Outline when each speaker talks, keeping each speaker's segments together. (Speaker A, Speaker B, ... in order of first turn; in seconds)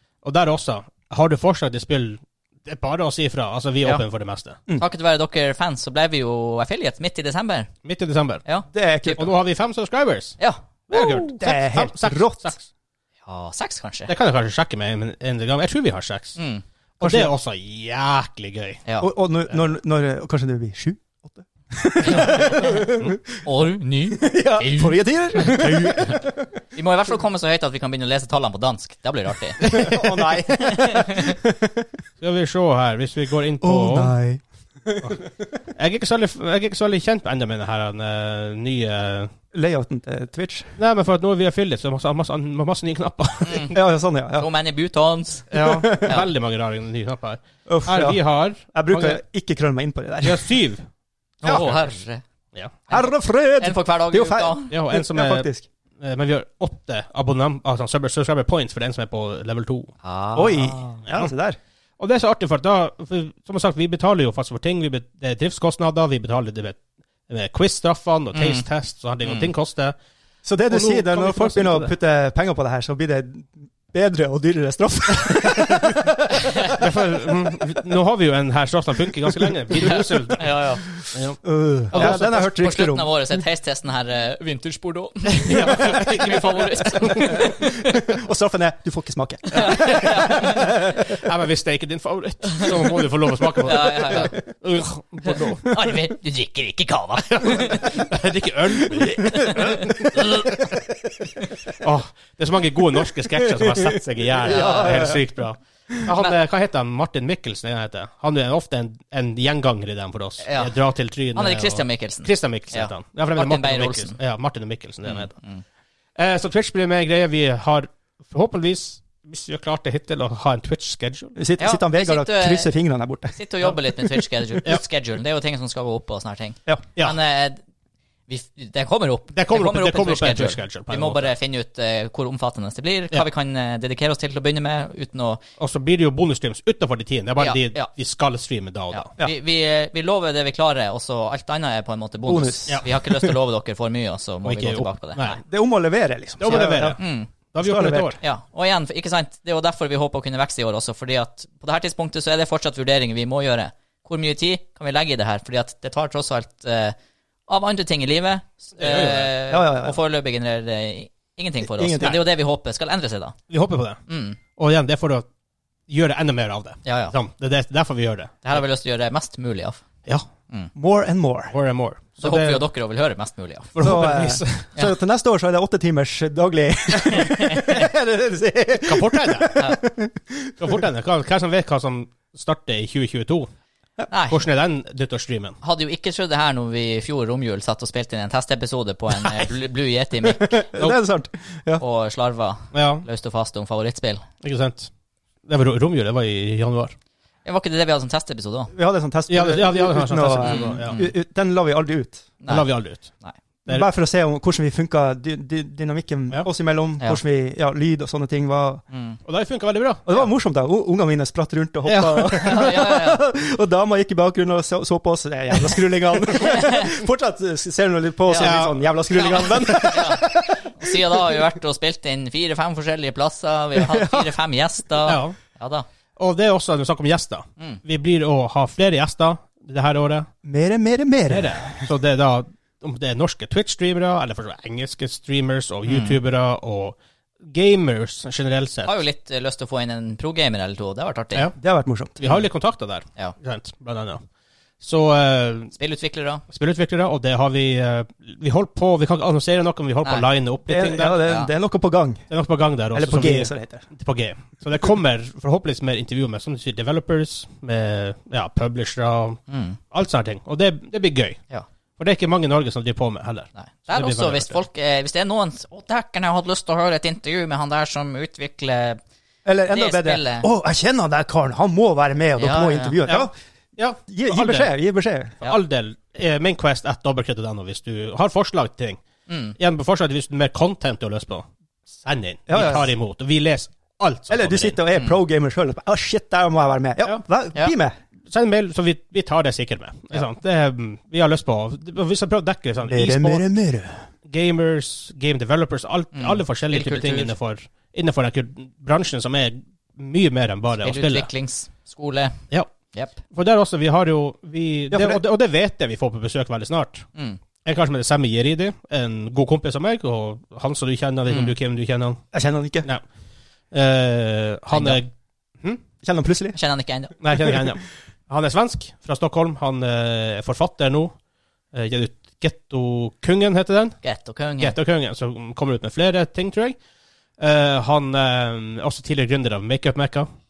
Speaker A: 0.2-4.6, 7.8-8.4, 9.1-12.7, 14.1-16.4, 17.0-18.8, 25.6-26.1, 29.7-30.0, 32.2-34.1, 35.8-39.3, 40.8-43.7, 45.5-49.2, 50.2-50.9, 51.5-51.9, 54.7-55.5, 56.0-59.9, 62.0-70.0, 70.7-71.9, 76.7-80.5, 81.1-81.4, 81.9-82.4, 85.4-87.5, 89.6-90.5, 91.0-95.7, 97.3-100.7, 101.7-115.3, 116.2-121.3, 129.3-131.3, 135.6-139.1, 144.4-145.4, 146.4-148.2, 158.8-159.3, 163.5-164.0, 164.6-165.3, 165.9-168.6, 171.5-172.6, 173.7-174.7, 178.8-179.6, 180.6-183.5, 184.3-185.6, 192.7-193.1, 194.4-194.9, 195.5-196.9, 199.3-201.0, 202.5-203.1, 209.2-210.1, 211.9-212.5, 218.4-218.8, 225.0-225.4, 226.2-230.3, 231.3-238.9, 242.2-244.2, 244.8-245.7, 246.5-251.2, 252.3-259.4, 259.9-261.4, 262.0-264.6, 273.1-274.7, 275.4-279.0, 279.6-284.8, 288.3-293.5, 294.2-301.3, 303.2-307.1, 307.6-312.2, 313.7-315.1, 317.2-321.1, 321.7-324.0, 324.6-326.8, 327.4-330.3
Speaker B: 4.8-7.7, 13.3-14.1, 16.4-16.6, 22.0-22.9, 23.4-25.8, 26.8-29.8, 30.7-31.4, 43.5-43.8, 44.4-46.3, 51.4-52.2, 52.9-54.7, 60.0-61.0, 68.3-68.7, 69.2-69.5, 79.8-80.9, 81.9-87.9, 89.5-90.8, 93.6-94.4, 95.7-98.0, 99.4-99.8, 104.5-105.2, 110.4-110.8, 111.3-114.2, 115.0-115.6, 121.6-122.7, 123.3-127.6, 128.3-135.4, 137.4-137.9, 138.9-145.4, 146.5-147.3, 148.2-156.9, 157.5-163.4, 164.1-164.4, 166.8-167.2, 168.4-169.8, 172.2-173.8, 184.1-184.4, 185.6-190.7, 191.8-194.2, 197.4-198.7, 200.4-201.1, 202.4-203.3, 208.9-209.2, 212.4-213.2, 216.4-216.9, 218.3-218.6, 219.1-225.9, 235.9-236.2, 238.9-241.5, 245.8-246.4, 259.5-259.8, 263.6-269.0, 269.7-270.5, 272.4-273.0, 279.3-279.6, 296.1-297.3, 300.8-302.4, 307.1-307.4, 311.3-311.5, 314.7-315.0, 316.5-317.5, 324.0-324.8
Speaker C: 8.7-9.3, 10.9-12.5, 17.0-17.3, 19.0-23.4, 24.2-26.5, 29.7-31.9, 33.6-35.2, 39.5-40.8, 43.7-44.5, 45.6-46.2, 47.7-50.5, 51.4-51.7, 52.9-55.7, 60.3-61.6, 70.5-76.8, 81.4-83.1, 87.2-91.1, 99.2-101.3, 103.5-105.2, 121.4-124.6, 142.2-142.9, 145.5-147.0, 147.6-148.2, 159.5-160.0, 161.6-162.3, 170.8-171.5, 173.8-180.8, 190.3-191.8, 198.7-202.3, 203.7-208.8, 210.1-221.5, 223.8-224.4, 230.4-231.9, 241.6-242.2, 250.7-252.3, 252.9-253.8, 269.4-273.3, 274.1-275.4, 282.5-282.9, 284.3-288.0, 292.9-294.0, 304.9-305.2, 312.3-312.9, 316.0-316.6